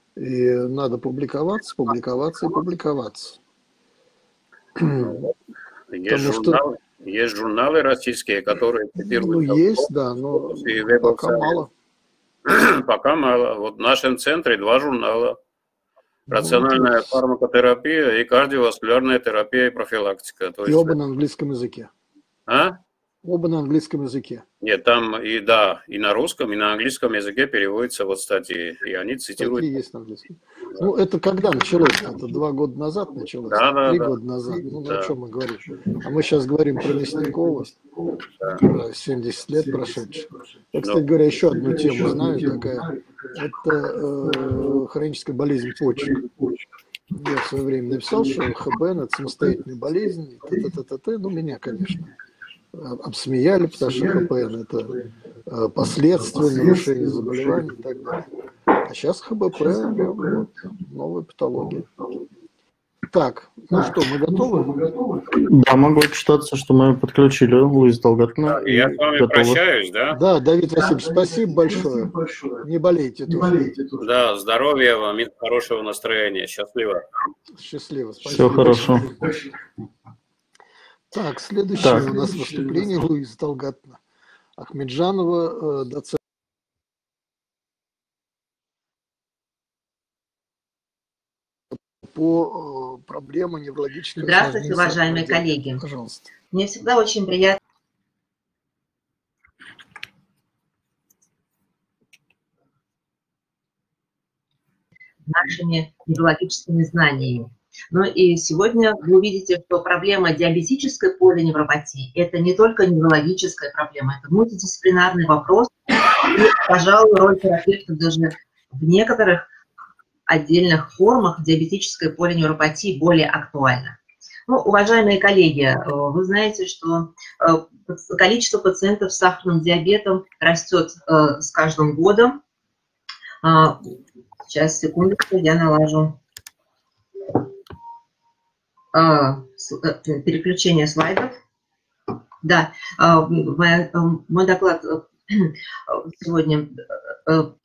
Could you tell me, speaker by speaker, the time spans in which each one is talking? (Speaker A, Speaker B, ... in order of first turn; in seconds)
Speaker A: 0.2-3.4, 4.8-5.3, 6.1-6.6, 8.9-11.7, 16.3-17.1, 20.6-21.9, 23.2-24.4, 29.4-37.8, 38.5-46.2, 47.1-52.1, 52.7-58.3, 58.8-61.9, 63.1-64.8, 70.1-73.8, 77.5-79.3, 81.1-84.0, 84.6-86.2, 92.0-96.3
Speaker B: 5.9-11.6, 12.4-15.4, 16.3-20.9, 22.5-22.8, 24.6-29.7, 33.5-34.1, 68.5-70.2, 74.0-77.0
Speaker C: 65.3-69.6, 78.3-79.1, 81.8-82.1
Speaker D: 94.2-95.8, 96.5-97.6, 105.2-119.5, 120.3-132.4, 133.4-133.8, 134.4-136.2, 138.9-141.3, 142.4-146.7